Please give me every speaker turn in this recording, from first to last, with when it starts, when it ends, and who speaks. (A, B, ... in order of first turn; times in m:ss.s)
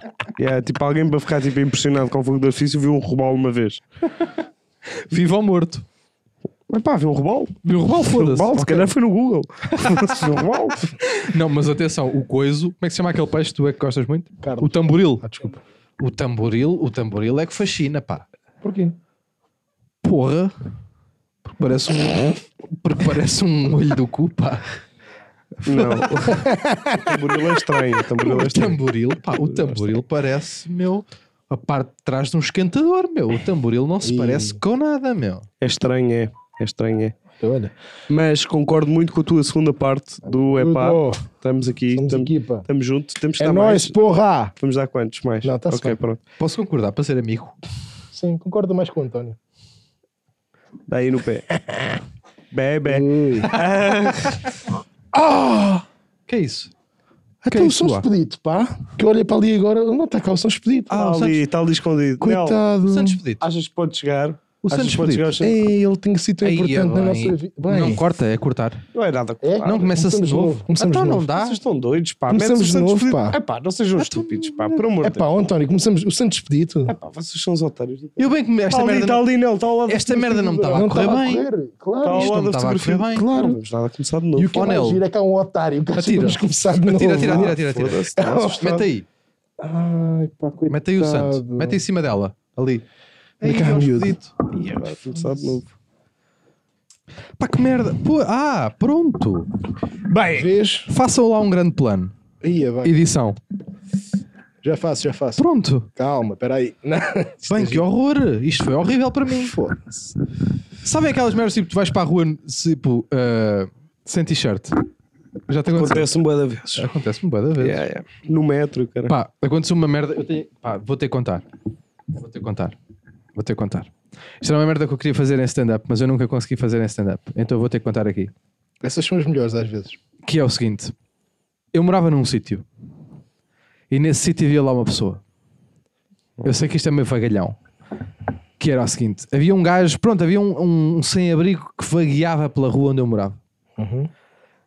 0:00.4-0:03.8 A
0:04.9-0:05.8 B
0:06.7-0:10.9 A
0:07.6-0:08.9 B
0:09.8-0:10.1 B
0:11.0-0:15.2 B
0:14.4-0:15.6 C
0:16.0-0:18.2 B
0:18.6-0:18.9 C
0:20.0-0:20.5 B
0:21.5-0:24.7 B
0:25.6-0:26.4 A
0:25.7-0:26.3 B
0:26.3-0:27.2 C
0:27.0-0:28.8 A
0:28.2-0:35.5 B
0:29.5-0:29.8 C
0:34.0-0:34.6 C
0:35.6-0:37.1 A
0:37.4-0:37.7 C
0:38.1-0:44.0 A
0:40.2-0:41.3 C
0:41.9-0:42.6 C
0:43.4-0:44.5 C
0:44.6-0:46.2 A
0:45.4-0:46.0 C
0:46.4-0:47.5 B
0:48.1-0:49.4 C
0:50.9-0:51.5 A
0:51.7-0:52.0 C
0:52.5-0:54.5 A
0:52.8-0:53.6 C
0:55.1-0:55.8 C
0:56.3-0:56.7 B
0:57.4-1:01.4 C
0:57.5-0:58.0 B
1:00.9-1:02.6 A
1:02.2-1:03.2 C
1:02.8-1:03.4 B
1:03.4-1:05.6 A
1:04.6-1:05.4 B
1:05.4-1:08.0 C
1:06.4-1:08.8 B
1:08.9-1:09.9 A
1:09.4-1:11.3 C
1:09.6-1:11.6 B
1:11.3-1:15.2 A
1:12.3-1:13.4 C
1:14.0-1:14.8 B
1:15.0-1:16.9 C
1:16.9-1:20.2 A
1:18.2-1:19.2 B
1:19.9-1:21.4 B
1:20.1-1:22.4 C
1:22.0-1:24.7 A
1:22.1-1:23.3 B
1:23.1-1:23.6 C
1:24.4-1:25.0 B
1:24.5-1:27.6 C
1:26.0-1:29.0 B
1:27.2-1:28.6 A
1:28.2-1:28.9 C
1:29.6-1:31.8 C
1:30.7-1:32.8 B
1:33.4-1:34.2 C
1:33.4-1:34.3 B
1:34.5-1:35.7 A
1:34.8-1:35.6 C
1:37.4-1:39.5 B
1:40.1-1:40.5 A
1:40.3-1:40.9 C
1:40.9-1:42.1 B
1:42.4-1:43.0 C
1:42.8-1:43.4 B
1:44.6-1:47.8 C
1:45.4-1:45.9 B
1:47.5-1:49.5 B
1:49.3-1:50.1 C
1:50.8-1:54.8 B
1:55.5-1:56.1 B
1:55.7-1:56.9 A
1:56.7-1:57.8 B
1:57.6-1:59.1 A
1:59.1-2:01.4 B
2:02.1-2:02.8 B
2:03.3-2:08.3 B
2:08.8-2:10.0 C
2:10.2-2:10.9 B
2:11.7-2:12.6 B
2:13.9-2:15.2 B
2:16.4-2:17.6 B
2:18.6-2:23.4 B
2:23.8-2:24.1 C